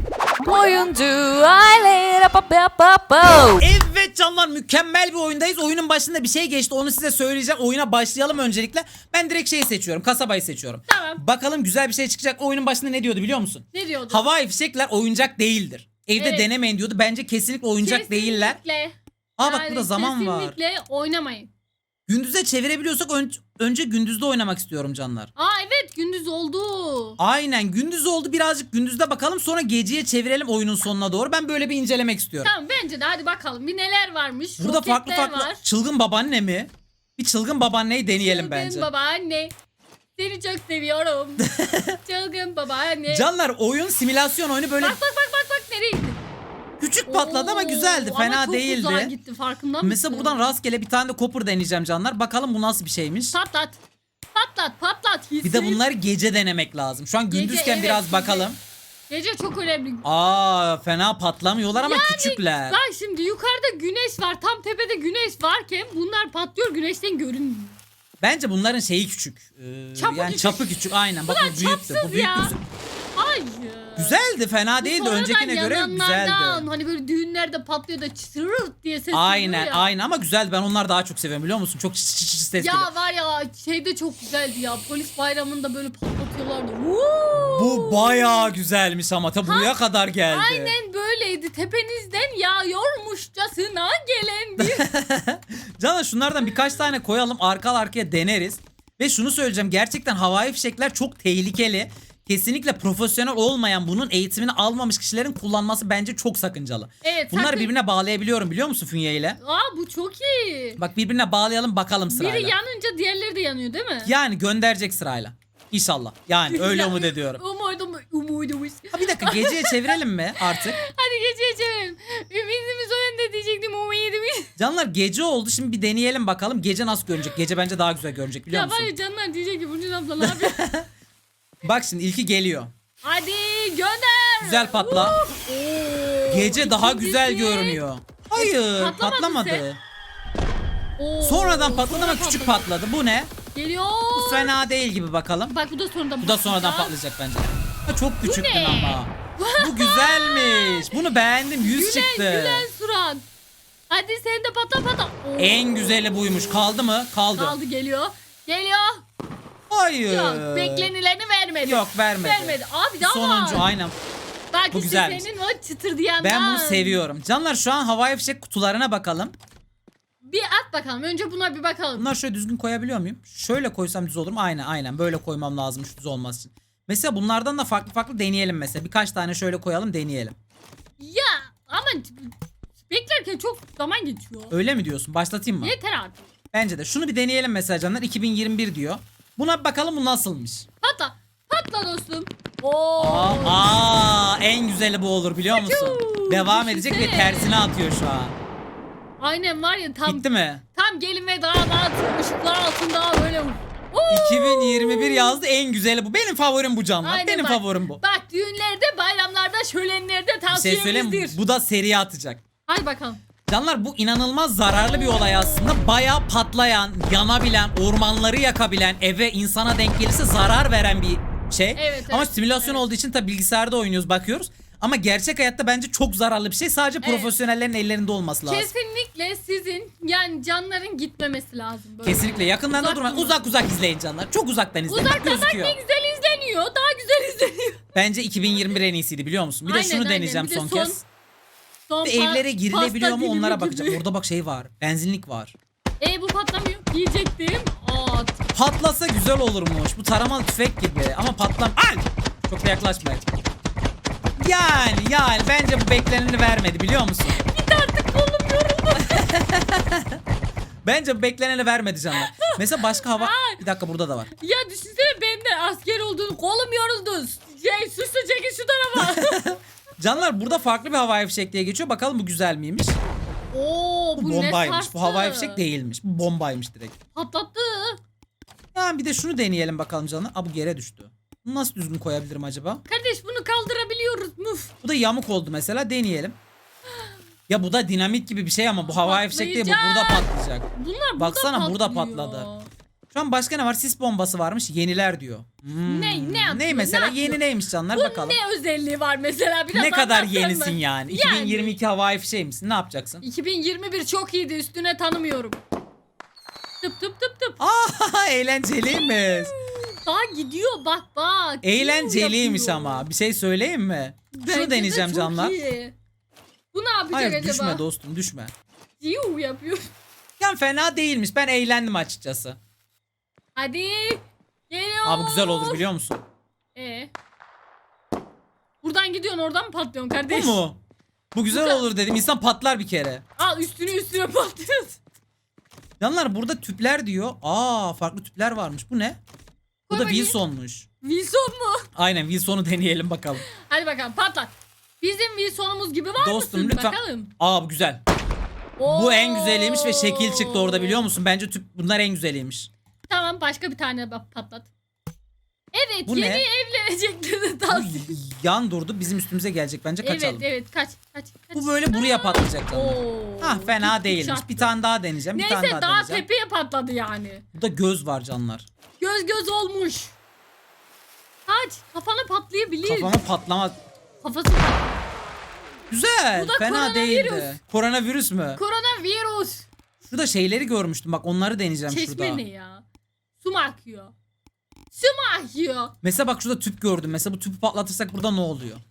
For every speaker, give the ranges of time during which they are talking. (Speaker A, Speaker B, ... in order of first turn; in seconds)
Speaker A: 0.4-3.6
Speaker B: 3.6-18.6, 19.4-20.6, 22.1-25.3, 27.2-32.5, 34.6-38.9, 41.4-42.0, 43.1-45.0, 46.8-49.1, 49.8-53.4, 55.4-58.6, 60.0-62.8, 68.2-72.6, 74.0-76.7, 79.1-82.9, 87.4-90.7, 94.6-109.4, 110.8-112.6, 114.0-117.4, 118.9-120.8, 124.6-128.9, 130.2-130.9, 131.6-132.7, 134.4-135.2, 136.3-139.8, 141.2-143.3, 144.2-145.6, 146.2-152.7, 155.4-157.6, 159.7-160.9, 161.6-164.0, 164.7-165.3, 166.2-169.3, 172.0-180.3, 184.5-185.7, 186.5-190.7, 193.0-198.4, 200.1-200.6, 204.1-208.0, 210.5-212.4, 213.5-228.7, 232.0-235.8, 237.9-241.0, 242.0-245.6, 248.5-253.3, 254.4-257.4, 259.0-260.2, 260.8-264.3, 268.9-273.0, 274.2-277.0, 278.8-282.8, 284.8-286.4, 287.5-290.7, 291.2-292.5, 293.1-298.4, 299.7-303.2, 307.6-309.5, 311.6-315.6, 317.1-318.5, 320.4-322.6, 325.1-326.2, 330.3-330.8, 331.3-333.2, 336.0-339.2, 339.9-340.9, 341.9-343.5, 346.2-348.0, 348.9-352.7, 356.1-356.5, 357.7-360.5, 361.6-366.2, 367.5-368.7, 372.8-373.8, 375.9-378.6, 380.1-382.4, 386.0-388.8
Speaker C: 10.9-11.2, 13.7-14.3, 16.1-16.5, 17.8-21.5, 25.4-27.2, 32.4-35.6, 38.1-39.5, 40.2-43.3, 44.8-46.2, 47.1-50.5, 53.3-53.8, 54.3-55.8, 57.3-58.5, 59.1-60.3, 61.8-67.8, 70.0-70.7, 71.2-72.5, 73.2-79.9, 82.6-88.5, 89.5-89.8, 90.3-94.9, 107.0-107.7, 109.4-110.8, 112.1-114.1, 116.5-124.5, 128.5-130.7, 133.0-137.8, 138.3-139.7, 141.0-142.7, 143.5-144.5, 145.5-146.9, 148.2-150.9, 151.6-153.2, 153.9-156.7, 157.3-159.0, 160.1-163.7, 164.5-167.0, 170.2-172.1, 181.0-184.5, 185.6-186.3, 190.8-193.6, 195.5-197.6, 199.2-205.4, 207.0-211.4, 212.7-213.2, 214.9-215.9, 221.8-222.8, 227.0-227.3, 228.5-233.5, 234.9-237.8, 239.7-241.0, 241.9-244.0, 246.0-248.4, 257.3-259.4, 262.1-263.6, 264.4-269.6, 273.5-275.6, 277.1-278.0, 282.9-284.7, 288.9-292.7, 295.9-301.8, 303.2-305.6, 306.8-307.6, 308.9-313.1, 314.3-315.9, 316.7-317.8, 319.0-319.9, 323.6-325.8, 326.8-327.1, 328.8-330.6, 331.5-331.9, 333.4-335.0, 339.9-340.4, 341.0-341.9, 343.5-347.3, 348.8-351.0, 353.1-354.7, 355.7-358.2, 360.0-364.7, 365.3-367.4, 369.0-370.2, 371.5-373.2, 374.2-375.0, 376.3-377.6, 378.6-379.7, 381.9-382.8, 383.4-384.1, 384.9-385.9